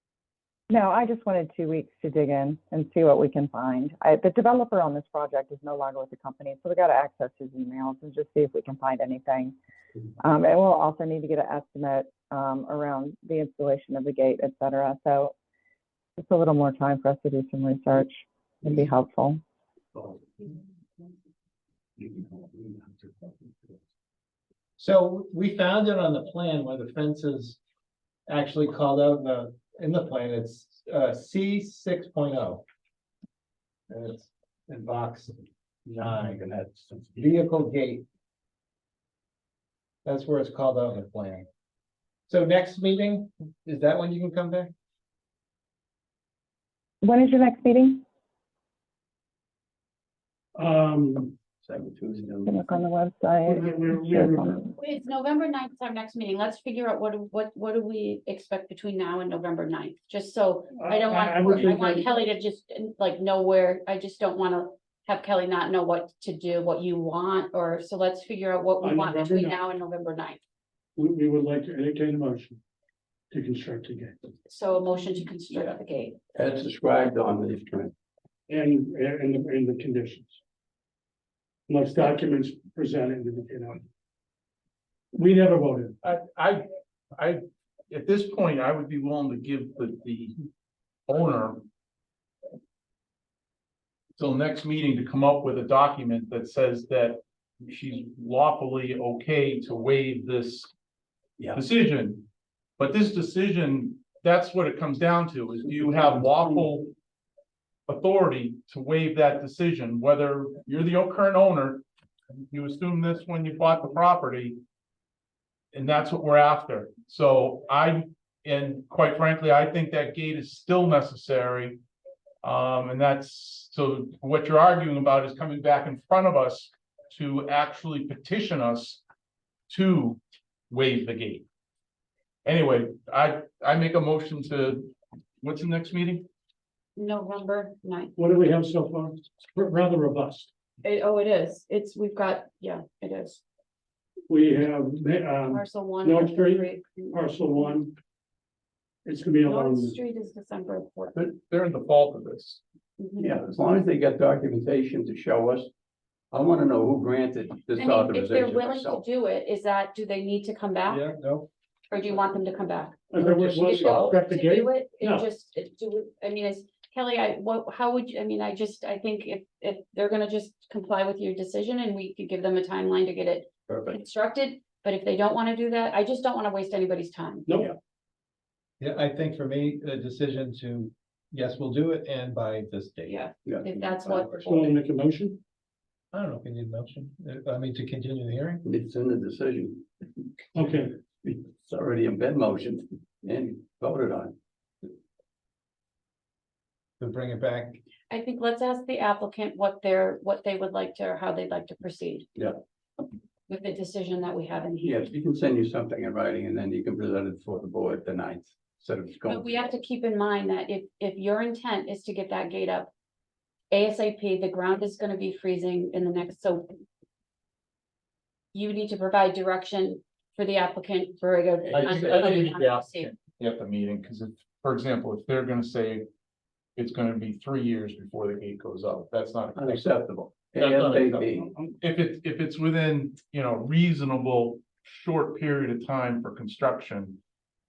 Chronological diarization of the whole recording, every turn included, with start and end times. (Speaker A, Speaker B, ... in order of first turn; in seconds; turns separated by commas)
Speaker A: 0.7-9.5, Speaker A: 10.2-15.3, Speaker A: 16.2-19.4, Speaker B: 24.8-27.6, Speaker B: 28.3-32.6, Speaker B: 33.9-35.5, Speaker C: 35.9-37.2, Speaker B: 36.0-36.4, Speaker B: 37.1-38.0, Speaker B: 40.0-41.5, Speaker B: 42.3-44.7, Speaker A: 47.0-48.0, Speaker D: 50.5-51.3, Speaker C: 51.6-52.8, Speaker A: 52.4-54.7, Speaker D: 53.5-54.4, Speaker E: 54.8-70.4, Speaker D: 60.7-62.3, Speaker D: 68.8-69.6, Speaker D: 71.0-72.6, Speaker D: 73.3-74.1, Speaker E: 74.5-76.2, Speaker C: 75.5-75.8, Speaker C: 76.3-77.9, Speaker D: 78.5-80.4, Speaker D: 81.7-83.8, Speaker D: 85.1-86.0, Speaker F: 86.0-90.3, Speaker F: 91.1-91.7, Speaker F: 94.2-100.7, Speaker F: 101.5-102.2, Speaker F: 102.8-106.9, Speaker F: 107.9-114.6, Speaker F: 115.7-121.8, Speaker F: 122.4-129.0, Speaker F: 129.7-131.4, Speaker F: 132.4-136.2, Speaker E: 136.9-138.1, Speaker D: 138.2-140.5, Speaker E: 140.8-143.4, Speaker D: 144.3-147.9, Speaker E: 145.5-147.7, Speaker D: 149.0-150.0, Speaker E: 149.4-151.2, Speaker F: 151.2-152.6, Speaker E: 153.0-153.4, Speaker C: 153.2-155.7, Speaker C: 156.3-159.0, Speaker E: 157.8-161.0, Speaker B: 160.9-161.5, Speaker E: 161.9-177.5, Speaker D: 163.1-165.3, Speaker C: 173.7-174.0, Speaker D: 177.5-177.7, Speaker B: 178.8-183.2, Speaker E: 183.1-184.7, Speaker C: 183.4-184.5, Speaker D: 184.4-185.4, Speaker B: 186.1-188.6, Speaker C: 188.6-194.3, Speaker D: 190.5-190.9, Speaker B: 197.0-197.8, Speaker E: 198.1-202.3, Speaker E: 203.5-205.0, Speaker C: 204.8-209.7, Speaker E: 209.3-212.9, Speaker E: 213.7-216.7, Speaker E: 218.5-223.1, Speaker C: 221.7-222.0, Speaker F: 221.7-226.1, Speaker F: 226.8-229.8, Speaker C: 229.6-231.5, Speaker F: 230.5-237.2, Speaker D: 231.4-231.7